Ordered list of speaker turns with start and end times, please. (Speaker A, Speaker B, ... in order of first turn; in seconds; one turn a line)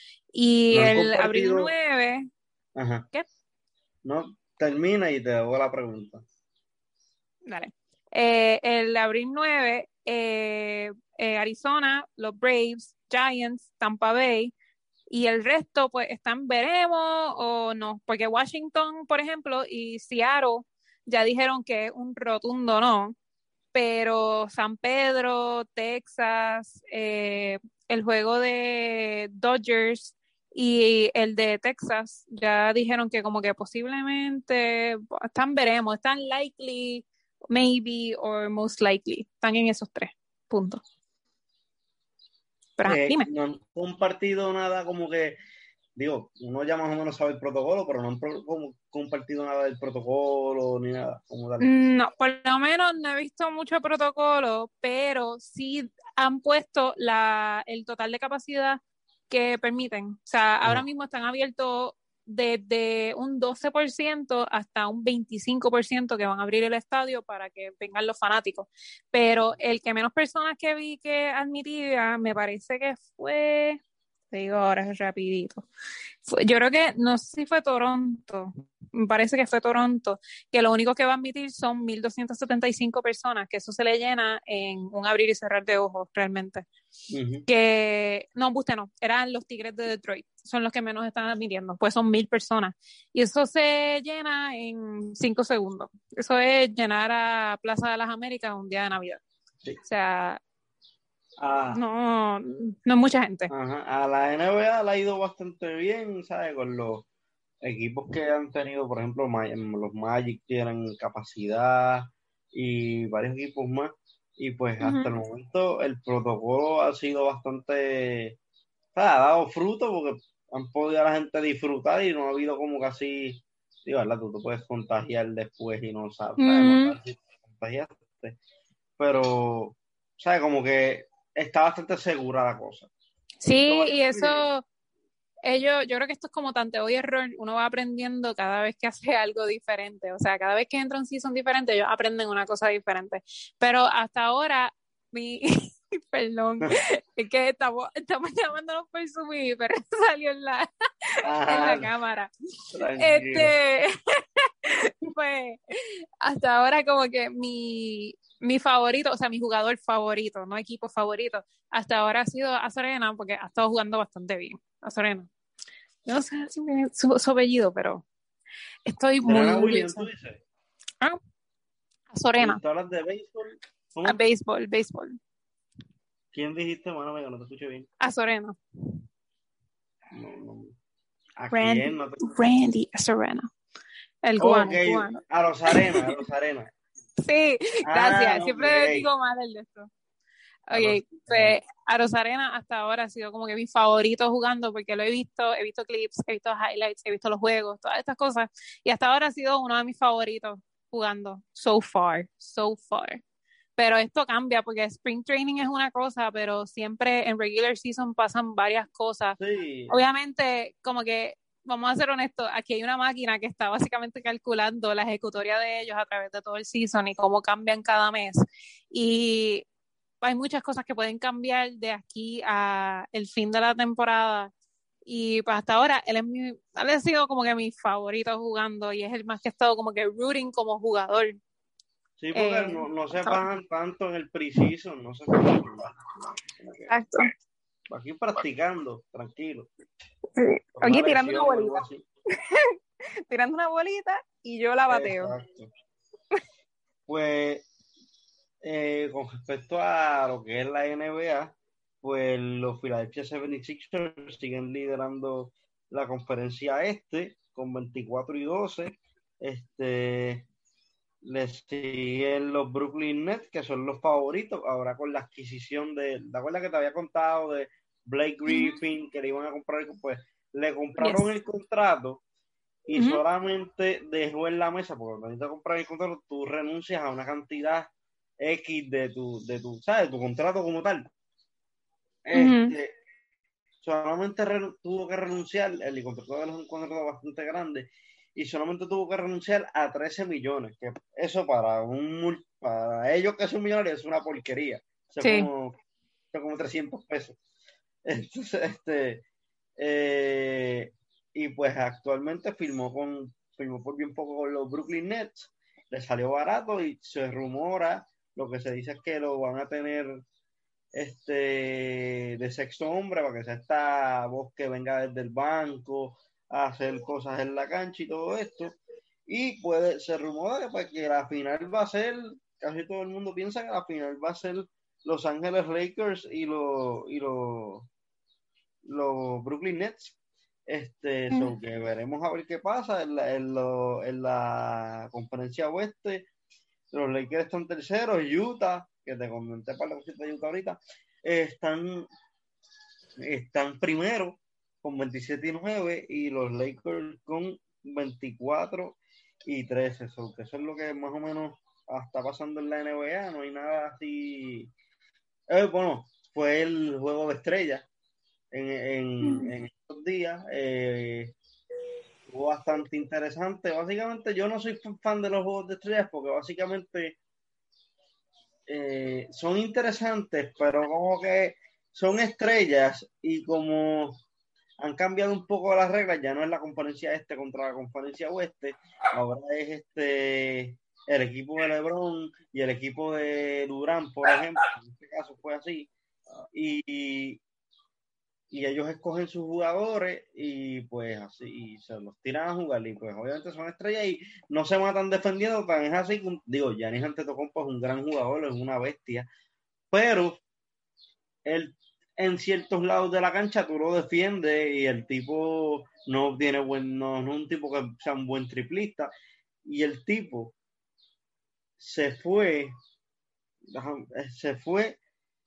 Speaker A: 0.3-2.3
Speaker B: 0.7-1.7
Speaker B: 2.8-3.1
Speaker B: 4.0-6.2
Speaker A: 7.5-14.5
Speaker A: 15.1-23.1
Speaker A: 23.7-40.8
Speaker A: 42.8-43.3
Speaker B: 42.8-45.4
Speaker B: 45.9-51.7
Speaker A: 51.6-73.8
Speaker A: 74.3-75.7
Speaker A: 76.2-86.7
Speaker B: 87.1-87.5
Speaker A: 87.5-99.2
Speaker A: 99.8-100.4
Speaker B: 101.4-101.8
Speaker A: 101.7-103.5
Speaker B: 103.5-107.0
Speaker B: 107.6-118.4
Speaker A: 114.8-115.1
Speaker B: 118.9-128.4
Speaker A: 126.4-127.0
Speaker B: 129.0-132.9
Speaker A: 133.4-134.6
Speaker B: 133.5-134.4
Speaker A: 135.4-152.3
Speaker B: 151.2-151.9
Speaker B: 152.7-153.5
Speaker A: 153.0-165.3
Speaker A: 166.1-168.0
Speaker A: 168.8-170.1
Speaker B: 169.2-170.4
Speaker A: 172.1-172.6
Speaker B: 172.4-174.2
Speaker A: 174.0-175.2
Speaker B: 176.3-177.9
Speaker A: 178.0-178.6
Speaker B: 180.1-180.8
Speaker B: 181.4-182.3
Speaker A: 181.5-183.5
Speaker A: 184.2-186.2
Speaker B: 184.4-186.7
Speaker A: 187.2-189.9
Speaker B: 187.9-189.1
Speaker A: 190.7-203.2
Speaker B: 190.7-191.6
Speaker A: 203.8-218.4
Speaker B: 209.4-210.0
Speaker A: 218.9-219.6
Speaker A: 220.2-224.5
Speaker A: 225.1-231.4
Speaker B: 232.2-235.9
Speaker A: 232.3-233.4
Speaker A: 235.3-235.6
Speaker B: 236.6-236.9
Speaker A: 236.9-237.3
Speaker B: 237.9-239.7
Speaker A: 240.4-242.7
Speaker B: 240.8-242.1
Speaker A: 243.3-245.3
Speaker B: 244.9-245.7
Speaker B: 247.1-247.7
Speaker B: 248.6-260.4
Speaker B: 261.2-272.2
Speaker A: 268.4-268.8
Speaker A: 271.0-271.3
Speaker B: 272.9-281.0
Speaker A: 272.9-273.2
Speaker B: 282.2-283.0
Speaker A: 282.3-282.8
Speaker B: 283.8-295.8
Speaker A: 295.2-295.5
Speaker B: 296.3-297.4
Speaker B: 298.0-299.2
Speaker B: 299.8-310.2
Speaker B: 310.9-327.9
Speaker B: 328.9-330.1
Speaker B: 330.7-336.3
Speaker B: 336.9-342.1
Speaker B: 343.2-354.7
Speaker B: 355.5-357.9
Speaker B: 358.5-361.3
Speaker A: 359.2-359.5
Speaker B: 362.3-367.2
Speaker B: 368.7-374.2
Speaker B: 374.8-385.9
Speaker B: 386.4-387.4
Speaker B: 388.5-399.3
Speaker B: 399.9-400.4
Speaker B: 401.4-409.1
Speaker B: 409.6-410.5
Speaker B: 411.8-412.7
Speaker B: 413.7-415.0